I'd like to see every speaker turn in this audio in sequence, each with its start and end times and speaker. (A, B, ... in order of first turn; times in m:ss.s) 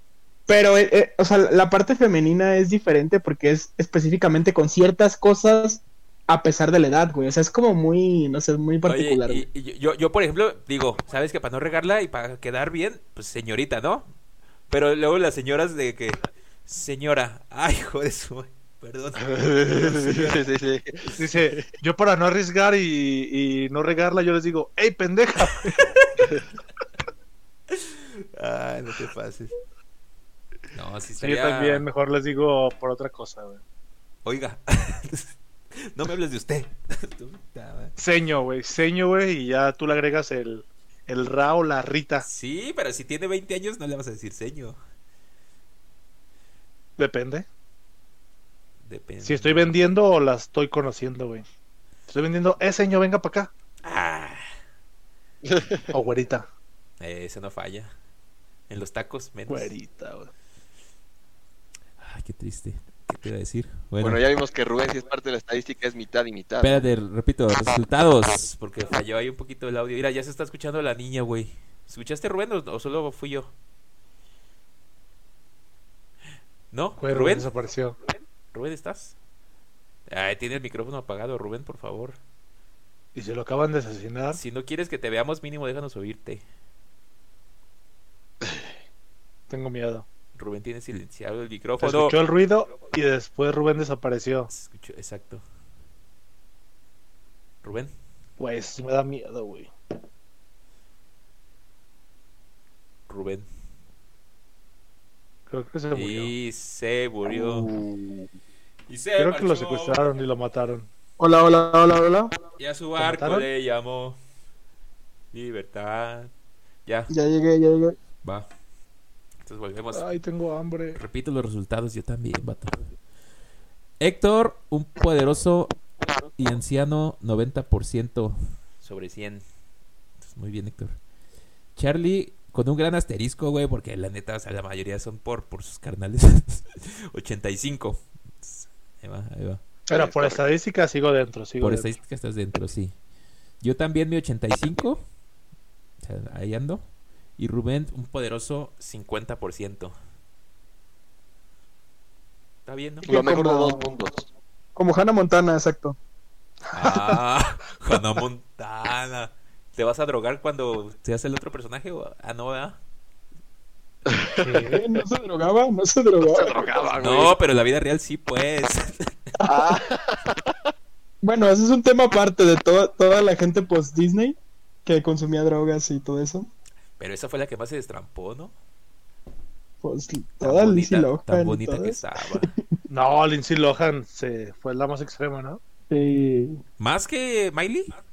0:00.5-0:09.5 A
0:08.8-0:14.1 B
0:14.7-0:20.4 B
0:19.2-0:21.6 C
0:21.2-0:25.9 D
0:25.8-0:26.1 B
0:27.7-0:29.6 B
0:30.7-0:31.9 B
0:31.2-0:33.6 D
0:34.2-0:38.0 B
0:38.0-0:42.3 D
0:42.2-0:44.8 B
0:47.0-0:47.5 D
0:48.8-0:49.8 B
0:49.2-0:51.4 D
0:52.1-0:53.5 D
0:53.8-0:54.4 B
0:55.4-0:55.9 C
0:55.9-0:56.5 D
0:57.0-0:57.9 B
0:58.7-0:59.7 B
0:59.5-1:00.3 D
1:02.0-1:04.2 B
1:04.0-1:06.9 C
1:06.6-1:13.5 B
1:16.7-1:17.5 B
1:17.0-1:18.0 D
1:18.5-1:19.2 B
1:20.1-1:22.2 B
1:23.2-1:24.4 D
1:24.3-1:26.4 B
1:29.5-1:30.0 D
1:30.4-1:32.2 B
1:31.8-1:34.5 D
1:34.5-1:35.4 B
1:37.6-1:37.9 B
1:38.4-1:39.7 D
1:43.1-1:43.5 B
1:45.5-1:46.3 D
1:45.9-1:47.7 B
1:48.9-1:50.1 B
1:49.2-1:50.9 D
1:51.2-1:52.3 A
1:52.6-1:54.2 B
1:53.0-1:53.5 D
1:55.3-1:56.3 B
1:56.9-1:57.1 B
1:57.1-1:58.0 A
1:59.4-2:00.2 B
1:59.9-2:01.0 D
2:01.0-2:02.8 B
2:04.0-2:05.8 B
2:06.4-2:09.4 B
2:10.2-2:11.0 B
2:11.8-2:19.6 B
2:19.9-2:20.4 C
2:19.9-2:22.0 D
2:21.6-2:22.9 B
2:23.6-2:25.0 B
2:26.0-2:26.9 B
2:27.4-2:30.0 B
2:32.7-2:33.1 B
2:33.0-2:33.9 A
2:33.1-2:34.3 C
2:34.8-2:36.0 A
2:36.7-2:42.8 B
2:44.1-2:44.4 C
2:44.4-2:44.8 D
2:44.7-2:46.6 A
2:46.2-2:47.4 C
2:47.0-2:49.1 B
2:49.4-2:49.8 A
2:49.5-2:50.5 C
2:51.2-2:56.5 A
2:57.0-2:58.5 B
2:59.8-3:02.7 A
3:00.4-3:02.6 B
3:02.9-3:05.6 D
3:05.9-3:06.6 A
3:06.8-3:07.9 B